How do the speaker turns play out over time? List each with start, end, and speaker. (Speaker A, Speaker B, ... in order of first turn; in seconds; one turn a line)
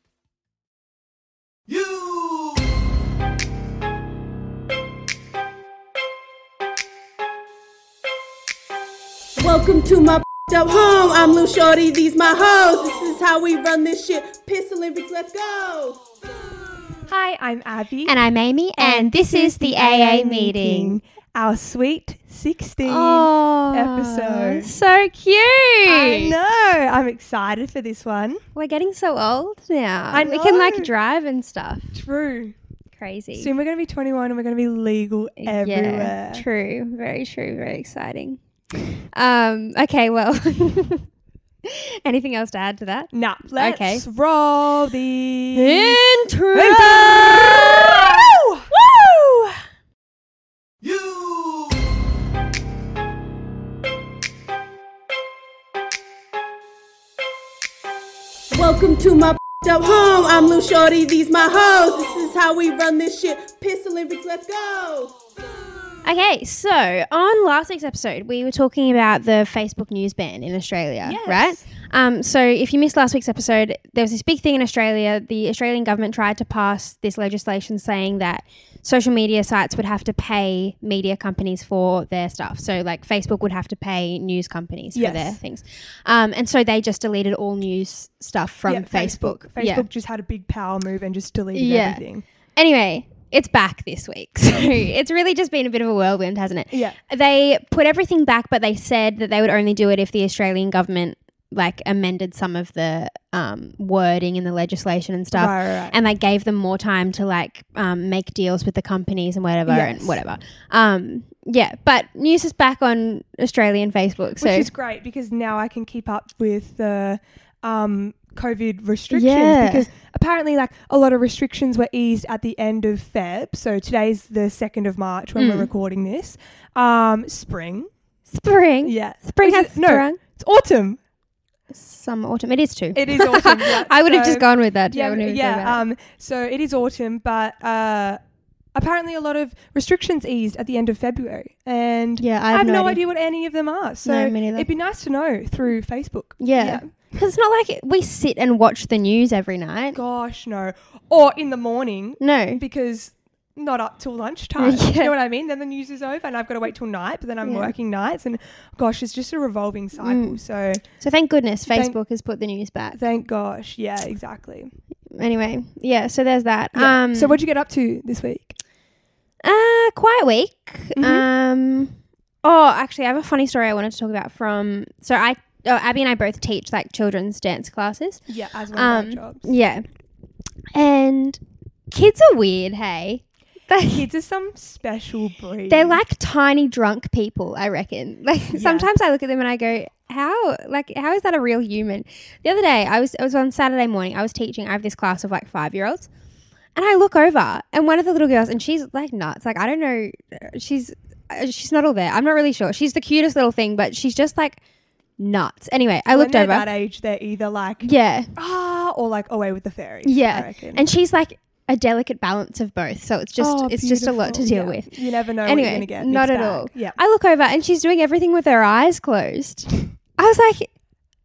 Speaker A: 9.4-16.0
Speaker B: 17.1-18.1
Speaker C: 18.1-21.0
Speaker B: 18.8-24.7
Speaker C: 22.8-26.3
Speaker B: 25.9-28.4
Speaker C: 28.6-31.9
Speaker B: 30.1-30.9
Speaker B: 31.9-32.5
Speaker C: 33.0-33.5
Speaker B: 33.4-36.4
Speaker C: 35.4-38.4
Speaker C: 39.1-41.1
Speaker C: 41.6-44.0
Speaker B: 43.1-46.0
Speaker C: 45.5-49.6
Speaker B: 46.5-48.7
Speaker A: 58.5-65.2
Speaker C: 66.0-89.9
Speaker B: 71.0-71.7
Speaker B: 84.9-85.4
Speaker B: 88.7-92.2
Speaker C: 91.5-92.0
Speaker C: 92.6-114.7
Speaker B: 96.7-97.0
Speaker B: 105.3-106.0
Speaker B: 109.7-110.2
Speaker B: 114.4-127.9
Speaker C: 119.1-119.9
Speaker C: 125.4-125.7
Speaker C: 128.3-130.2
Speaker B: 128.8-131.0
Speaker C: 131.7-135.8
Speaker B: 132.9-138.2
Speaker B: 138.8-146.9
Speaker C: 142.2-143.0
Speaker C: 144.1-144.7
Speaker C: 146.4-150.0
Speaker B: 149.9-160.8
Speaker C: 152.2-152.6
Speaker C: 154.6-155.1
Speaker C: 157.4-157.7
Speaker C: 160.0-160.4
Speaker C: 161.0-163.0
Speaker B: 161.7-162.0
Speaker B: 162.9-164.7
Speaker C: 165.2-167.4
Speaker B: 166.8-168.6
Speaker C: 169.4-178.2
Speaker B: 171.0-171.3
Speaker B: 178.3-179.5
Speaker C: 178.7-179.8
Speaker C: 180.7-181.4
Speaker C: 181.9-184.1
Speaker B: 183.9-186.0
Speaker C: 185.7-196.1
Speaker B: 188.5-188.9
Speaker C: 196.8-204.6
Speaker C: 205.2-206.7
Speaker B: 206.1-210.9
Speaker C: 207.8-208.3
Speaker C: 210.0-214.9
Speaker B: 213.4-217.0
Speaker C: 215.4-220.7